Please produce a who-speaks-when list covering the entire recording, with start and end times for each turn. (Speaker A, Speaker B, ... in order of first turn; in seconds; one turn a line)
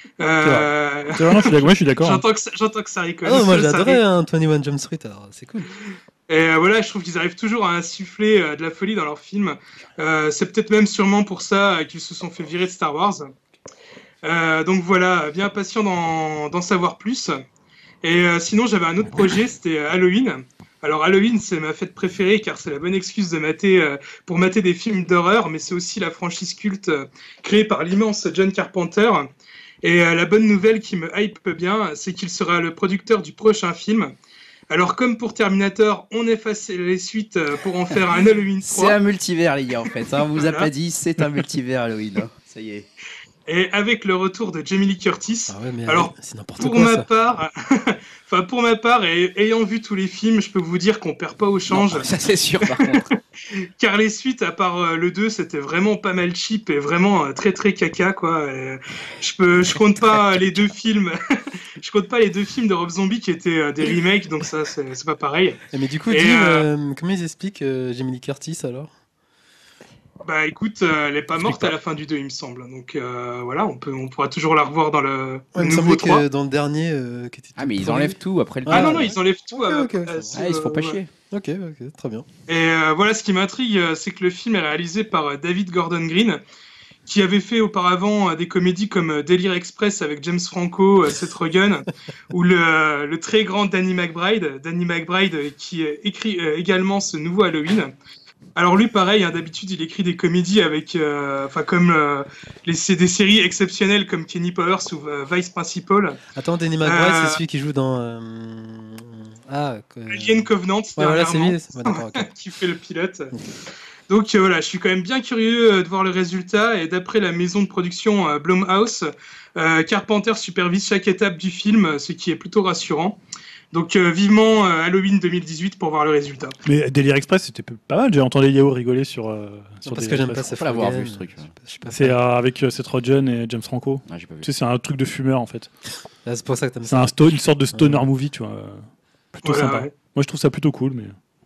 Speaker A: 0.2-4.0
Speaker B: 0.4-2.2
Speaker C: 3.2-5.7
Speaker A: 6.3-13.3
Speaker A: 14.2-17.4
Speaker A: 18.0-29.3
Speaker A: 29.8-34.1
Speaker A: 34.7-39.0
Speaker D: 38.6-42.9
Speaker A: 40.3-40.7
Speaker A: 43.5-52.1
Speaker C: 45.5-47.1
Speaker D: 51.7-53.1
Speaker A: 52.6-61.2
Speaker A: 61.8-65.6
Speaker C: 65.7-68.9
Speaker A: 66.1-66.7
Speaker A: 70.2-76.2
Speaker B: 71.4-71.7
Speaker C: 75.5-80.4
Speaker D: 77.6-79.1
Speaker A: 78.7-81.0
Speaker D: 80.3-81.1
Speaker C: 81.3-82.3
Speaker A: 82.5-86.4
Speaker A: 87.0-97.9
Speaker A: 98.5-106.2
Speaker C: 106.3-110.4
Speaker A: 106.8-107.4
Speaker A: 110.1-113.3
Speaker C: 111.0-112.3
Speaker A: 114.1-123.2
Speaker A: 123.7-126.5
Speaker B: 126.6-130.3
Speaker C: 129.8-132.2
Speaker D: 130.3-131.5
Speaker B: 131.9-135.7
Speaker D: 134.1-134.5
Speaker C: 136.2-137.2
Speaker B: 136.9-141.1
Speaker C: 137.7-138.0
Speaker A: 139.4-139.9